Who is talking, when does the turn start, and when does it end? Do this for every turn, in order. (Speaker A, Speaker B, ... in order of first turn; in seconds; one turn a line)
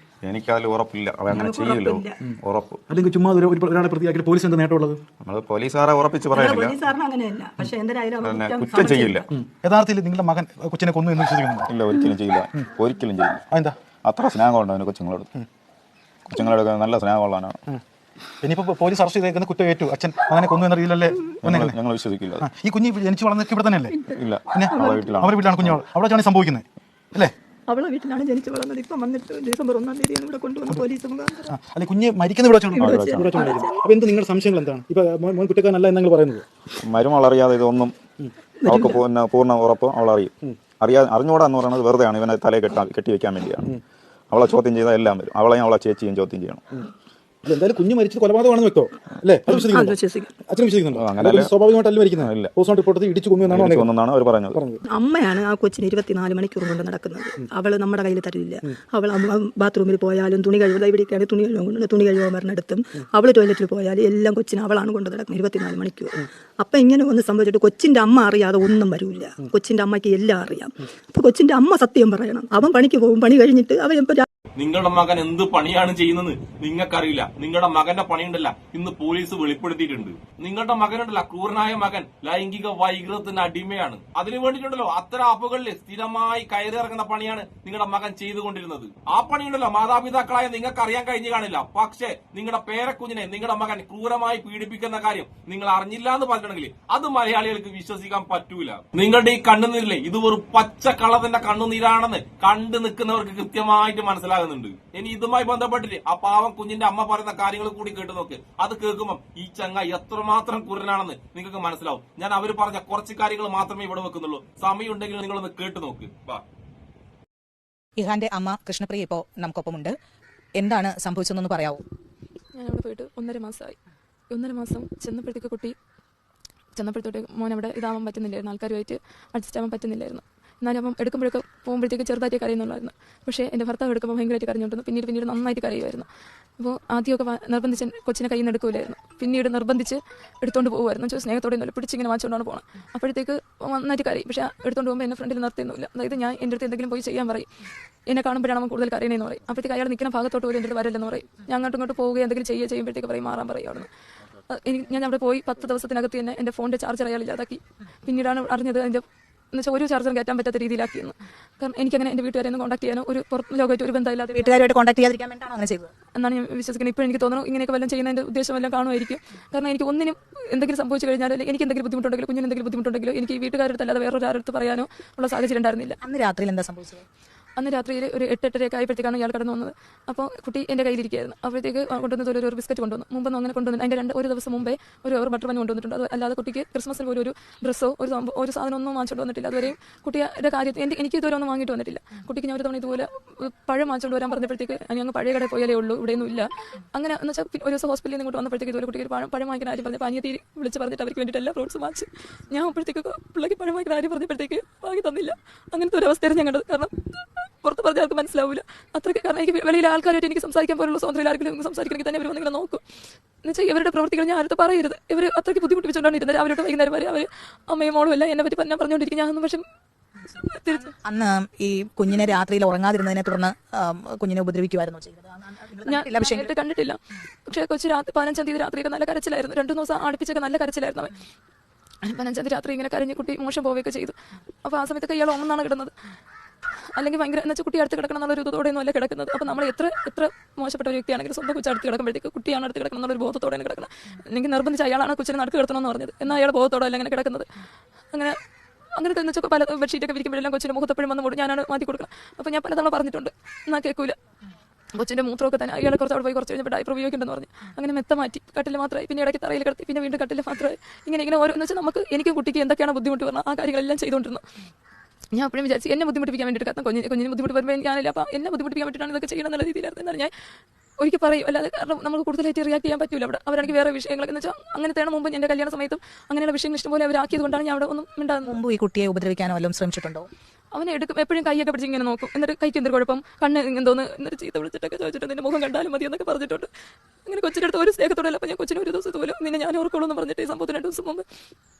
Speaker A: 0.2-2.8
Speaker B: 1.4-2.1
Speaker C: 2.2-5.0
Speaker A: 5.2-6.8
Speaker B: 6.4-9.3
Speaker A: 8.2-9.3
Speaker C: 9.3-11.7
Speaker A: 11.7-13.4
Speaker C: 13.5-13.8
Speaker A: 14.0-15.3
Speaker A: 16.3-17.6
Speaker C: 18.4-21.8
Speaker A: 21.4-22.4
Speaker C: 22.4-24.0
Speaker B: 23.9-24.2
Speaker A: 24.2-25.8
Speaker C: 24.5-27.3
Speaker B: 27.7-31.5
Speaker C: 31.5-36.4
Speaker B: 32.7-33.8
Speaker A: 32.8-33.4
Speaker A: 36.8-37.9
Speaker B: 38.6-39.0
Speaker A: 38.6-43.7
Speaker A: 44.3-46.6
Speaker C: 47.4-53.9
Speaker B: 49.5-50.3
Speaker A: 50.9-51.5
Speaker A: 52.2-52.5
Speaker A: 53.5-54.6
Speaker C: 54.5-54.8
Speaker B: 54.9-74.2
Speaker D: 74.6-116.4
Speaker E: 118.0-119.9
Speaker E: 120.6-121.8
Speaker F: 122.6-123.8
Speaker F: 124.3-125.7
Speaker F: 126.8-136.1
Speaker F: 136.6-147.5
Speaker F: 148.1-153.9
Speaker F: 154.5-164.5
Speaker E: 164.3-165.9
Speaker F: 166.2-175.9
Speaker E: 176.0-177.0
Speaker F: 177.6-206.9
Speaker F: 207.6-212.8
Speaker F: 213.4-219.6
Speaker F: 220.4-220.9
Speaker E: 220.7-226.5
Speaker F: 225.8-227.0
Speaker F: 227.5-231.1
Speaker F: 232.0-234.1
Speaker F: 234.6-235.9
Speaker F: 237.0-247.5
Speaker F: 249.0-254.2
Speaker F: 255.0-264.4
Speaker F: 265.3-270.3
Speaker F: 271.0-278.6
Speaker E: 278.4-280.3
Speaker F: 280.7-286.7
Speaker F: 287.3-291.2